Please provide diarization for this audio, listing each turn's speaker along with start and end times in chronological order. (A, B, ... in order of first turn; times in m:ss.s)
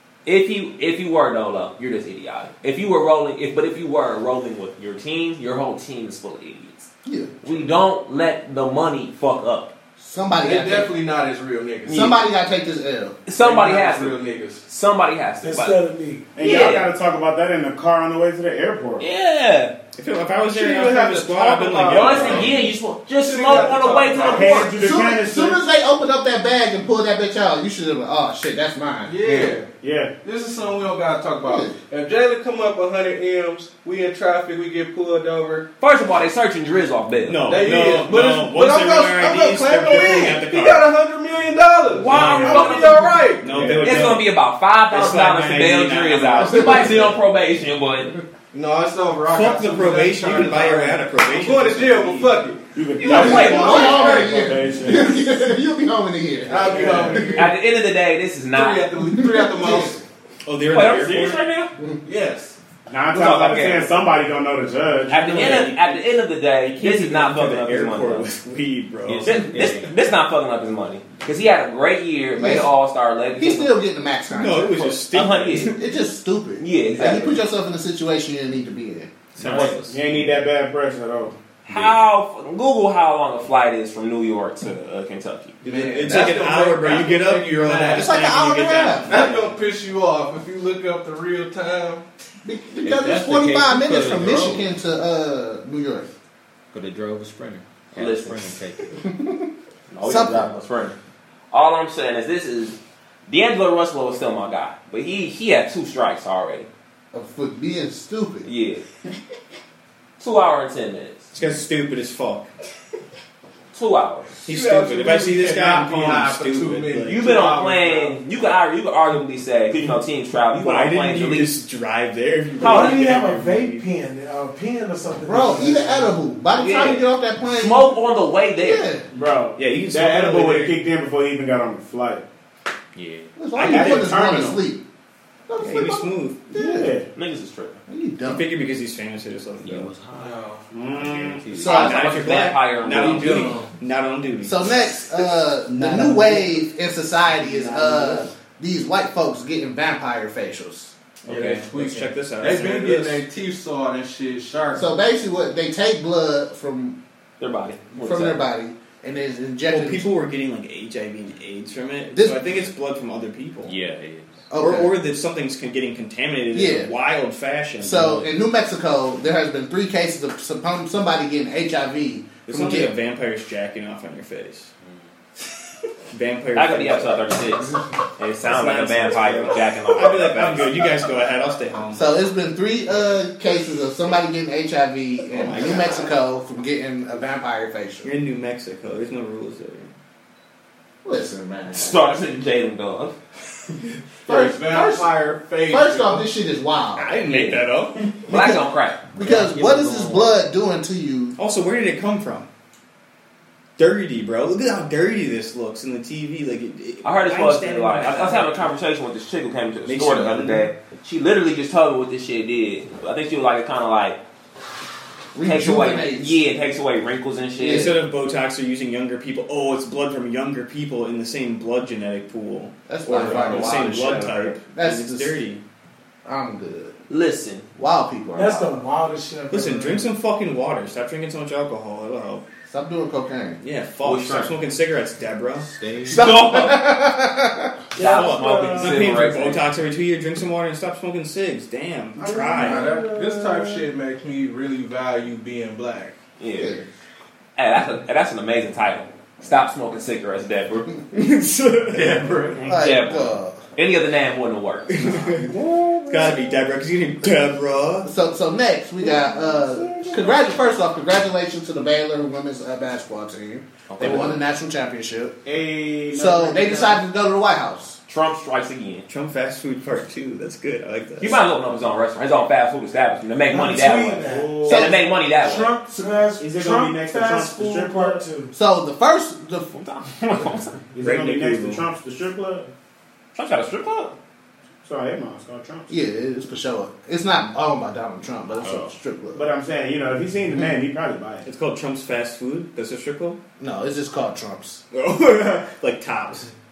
0:00.3-0:06.9 A
0:07.0-0:07.7 B
0:07.4-0:09.7 A
0:10.0-0:10.9 B
0:10.4-0:12.2 C
0:11.9-0:13.2 B
0:13.3-0:15.8 A
0:13.4-0:14.6 C
0:15.4-0:16.3 D
0:16.4-0:19.1 E
0:16.4-0:16.9 A
0:19.0-0:19.7 A
0:20.0-0:22.6 F
0:20.5-0:24.6 C
0:21.9-0:24.7 A
0:24.3-0:25.6 E
0:24.4-0:29.2 B
0:29.0-0:29.7 C
0:29.8-0:30.1 E
0:30.2-0:35.7 C
0:31.4-0:31.8 B
0:35.8-0:37.6 A
0:37.3-0:40.9 F
0:37.4-0:44.0 C
0:41.9-0:48.2 A
0:42.1-0:42.9 E
0:43.4-0:44.3 F
0:43.5-0:44.1 E
0:44.9-0:47.2 F
0:46.5-0:47.2 B
0:48.5-0:53.9 C
0:49.3-0:52.4 F
0:52.7-0:55.1 E
0:53.0-0:54.5 A
0:53.0-0:57.4 B
0:56.5-0:57.6 C
0:57.3-0:58.9 A
0:58.5-1:00.0 C
0:59.0-1:00.0 B
1:00.4-1:01.4 F
1:00.7-1:01.7 A
1:02.0-1:02.6 C
1:02.9-1:05.7 E
1:03.1-1:04.0 A
1:05.1-1:08.3 A
1:05.1-1:09.8 F
1:09.0-1:09.9 G
1:09.3-1:13.7 A
1:12.4-1:12.7 B
1:13.4-1:14.9 B
1:14.3-1:15.8 F
1:14.7-1:15.7 A
1:15.6-1:19.1 B
1:16.6-1:17.4 A
1:19.4-1:20.3 G
1:19.4-1:19.8 F
1:19.7-1:21.4 E
1:21.6-1:25.6 A
1:21.7-1:22.0 G
1:25.6-1:28.2 C
1:25.6-1:29.6 F
1:27.9-1:29.2 B
1:29.0-1:32.0 C
1:32.4-1:36.1 B
1:32.8-1:34.7 G
1:36.7-1:39.0 G
1:38.0-1:38.5 A
1:39.1-1:39.4 B
1:39.9-1:41.0 A
1:40.0-1:40.5 B
1:41.5-1:46.7 A
1:47.1-1:48.5 B
1:48.4-1:48.8 A
1:50.2-1:51.3 A
1:51.3-1:52.5 F
1:53.7-1:54.3 A
1:54.4-1:57.2 F
1:54.4-1:58.2 C
1:57.0-2:01.6 A
2:00.5-2:03.8 F
2:02.6-2:03.1 A
2:02.6-2:06.2 D
2:05.2-2:08.0 B
2:06.5-2:08.9 A
2:08.6-2:09.0 B
2:09.1-2:12.2 E
2:09.6-2:10.8 F
2:12.9-2:13.3 G
2:13.4-2:14.8 B
2:13.6-2:14.6 F
2:13.6-2:14.6 E
2:15.5-2:17.0 B
2:15.6-2:16.4 F
2:16.5-2:17.1 E
2:17.2-2:17.8 A
2:17.9-2:18.5 B
2:18.3-2:19.9 F
2:19.6-2:21.9 G
2:20.2-2:20.6 C
2:20.7-2:21.4 E
2:21.5-2:22.1 B
2:21.6-2:23.5 A
2:21.6-2:24.6 F
2:22.9-2:23.7 C
2:24.4-2:30.9 B
2:25.7-2:26.6 F
2:27.4-2:28.3 F
2:31.2-2:33.2 F
2:31.3-2:34.9 C
2:34.7-2:37.0 B
2:37.4-2:38.4 A
2:38.0-2:40.1 B
2:39.7-2:43.8 F
2:42.1-2:42.6 B
2:43.6-2:44.5 G
2:44.5-2:45.0 B
2:44.6-2:48.3 F
2:46.5-2:46.9 B
2:47.8-2:52.9 B
2:52.5-2:54.7 F
2:56.1-2:57.4 F
2:56.6-3:00.9 A
2:58.4-3:02.0 F
3:01.9-3:08.1 B
3:05.3-3:06.1 F
3:08.0-3:09.9 F
3:11.0-3:12.0 B
3:11.7-3:13.2 A
3:14.3-3:16.3 C
3:14.3-3:15.1 B
3:15.7-3:17.2 B
3:17.0-3:18.1 F
3:17.2-3:17.6 A
3:18.3-3:21.4 B
3:18.3-3:19.1 A
3:19.2-3:20.4 G
3:21.4-3:22.5 F
3:23.8-3:28.7 F
3:27.0-3:34.2 A
3:29.9-3:30.7 F
3:35.3-3:36.4 B
3:35.4-3:37.9 A
3:37.6-3:38.0 B
3:37.6-3:45.6 F
3:42.9-3:45.4 B
3:43.1-3:44.4 A
3:46.2-3:46.9 B
3:47.1-3:47.7 A
3:47.8-3:48.8 B
3:48.3-3:50.0 D
3:49.5-3:52.4 F
3:52.7-3:53.6 B
3:53.6-3:55.7 F
3:54.0-3:54.5 A
3:55.6-3:56.3 G
3:56.1-3:57.8 B
3:56.1-3:56.9 A
3:58.0-3:59.0 D
3:58.0-3:59.7 A
3:58.0-4:03.0 F
4:02.2-4:06.2 C
4:02.6-4:02.9 B
4:02.8-4:03.2 D
4:03.1-4:03.7 E
4:06.4-4:06.8 A
4:06.6-4:06.9 B
4:07.6-4:11.0 A
4:11.2-4:12.2 F
4:11.9-4:12.6 C
4:12.5-4:15.3 A
4:12.7-4:13.6 B
4:15.0-4:15.5 F
4:15.4-4:16.5 E
4:16.1-4:18.1 F
4:18.0-4:25.4 B
4:24.0-4:24.4 G
4:24.0-4:24.3 A
4:25.4-4:27.0 E
4:26.1-4:28.0 B
4:28.1-4:29.0 A
4:29.1-4:31.4 F
4:31.2-4:35.8 A
4:33.5-4:34.6 D
4:33.9-4:34.9 E
4:34.6-4:35.0 B
4:35.4-4:38.5 D
4:35.9-4:38.2 E
4:38.5-4:39.7 B
4:39.8-4:40.8 A
4:40.9-4:42.7 E
4:41.0-4:41.8 F
4:43.4-4:44.2 A
4:44.8-4:45.9 E
4:45.9-4:49.5 B
4:49.3-4:51.5 E
4:51.4-4:53.4 F
4:53.6-4:54.8 B
4:54.9-4:56.5 F